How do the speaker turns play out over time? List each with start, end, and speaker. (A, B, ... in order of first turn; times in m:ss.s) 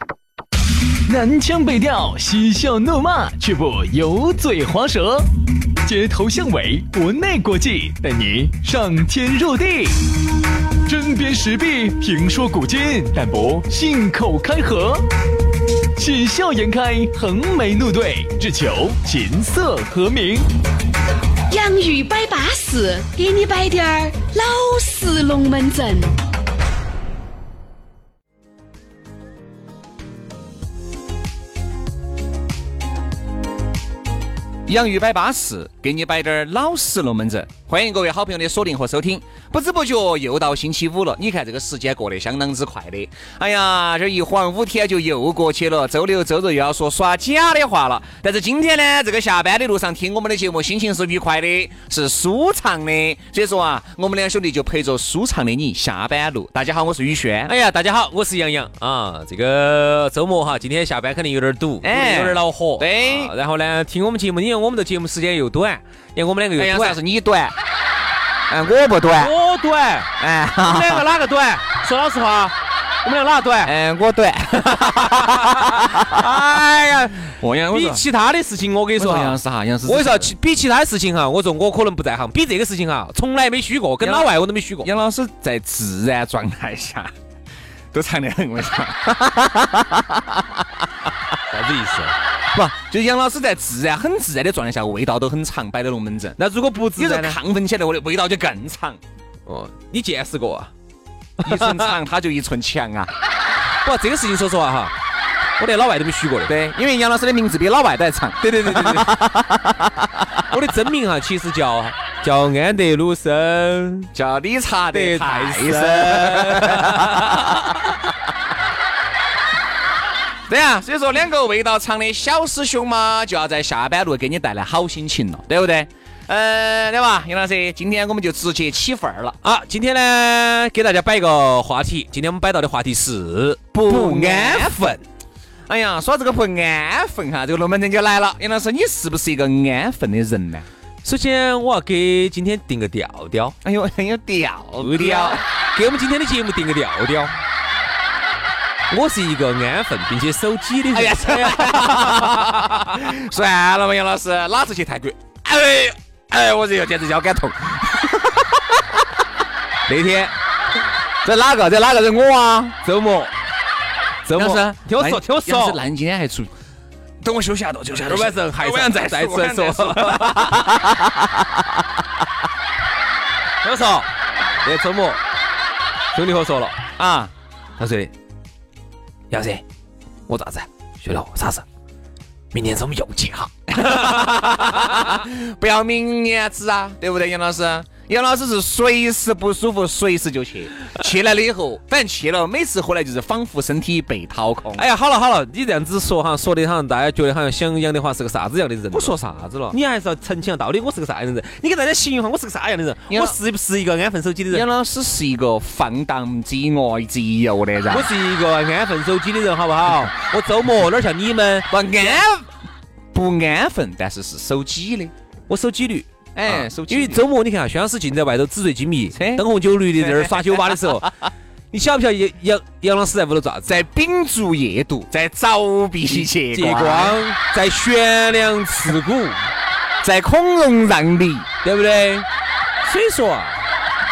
0:01.0-0:05.3 A
0:05.8-0:10.1 A
0:10.8-0:15.0 A
0:16.0-0:20.5 A
0:21.5-0:26.1 B
0:34.7-0:57.5 C
0:57.5-1:07.0 D
1:01.8-1:03.3 C
1:06.6-1:07.5 C
1:08.5-1:09.3 C
1:09.2-1:10.1 D
1:10.2-1:11.0 C
1:10.6-1:13.7 D
1:13.6-1:16.3 C
1:14.9-1:24.9 D
1:17.2-1:18.0 C
1:19.0-1:20.3 C
1:24.0-1:24.3 C
1:24.8-1:27.1 C
1:27.9-1:30.7 C
1:31.5-1:32.2 D
1:32.5-1:36.4 C
1:36.4-1:37.4 D
1:37.0-1:39.0 C
1:39.4-1:40.7 D
1:41.4-1:41.9 D
1:41.4-1:43.1 C
1:43.8-1:44.9 D
1:45.6-1:46.5 D
1:46.5-1:50.4 C
1:48.4-1:49.2 D
1:50.5-1:54.1 D
1:54.1-1:57.8 C
1:54.9-1:57.9 D
2:00.5-2:09.4 C
2:09.4-2:15.0 D
2:13.7-2:14.9 C
2:15.7-2:20.7 C
2:21.0-2:23.6 D
2:23.6-2:25.4 C
2:24.8-2:27.3 D
2:28.9-2:32.9 D
2:30.9-2:39.0 C
2:39.9-2:40.3 D
2:41.2-2:42.8 C
2:42.8-2:43.3 D
2:44.2-2:45.8 D
2:44.3-2:46.5 C
2:47.2-2:51.0 C
2:48.0-2:51.0 D
2:53.6-2:54.1 D
2:54.6-2:55.2 D
2:56.1-2:56.8 D
2:57.0-2:57.3 C
2:57.8-2:58.1 D
2:59.3-2:59.6 D
3:00.3-3:01.6 D
3:02.5-3:04.1 D
3:03.7-3:14.8 C
3:14.8-3:19.1 D
3:18.9-3:19.8 C
3:19.7-3:24.6 D
3:23.1-3:23.4 C
3:24.5-3:28.1 C
3:27.9-3:32.2 D
3:31.7-3:32.5 C
3:33.1-3:35.1 C
3:35.5-3:41.2 D
3:36.3-3:37.2 C
3:39.1-3:39.4 C
3:40.0-3:41.0 C
3:41.7-3:43.8 D
3:43.7-3:47.2 C
3:46.1-3:49.5 D
3:50.0-3:51.5 C
3:51.6-3:52.2 D
3:52.8-3:53.6 D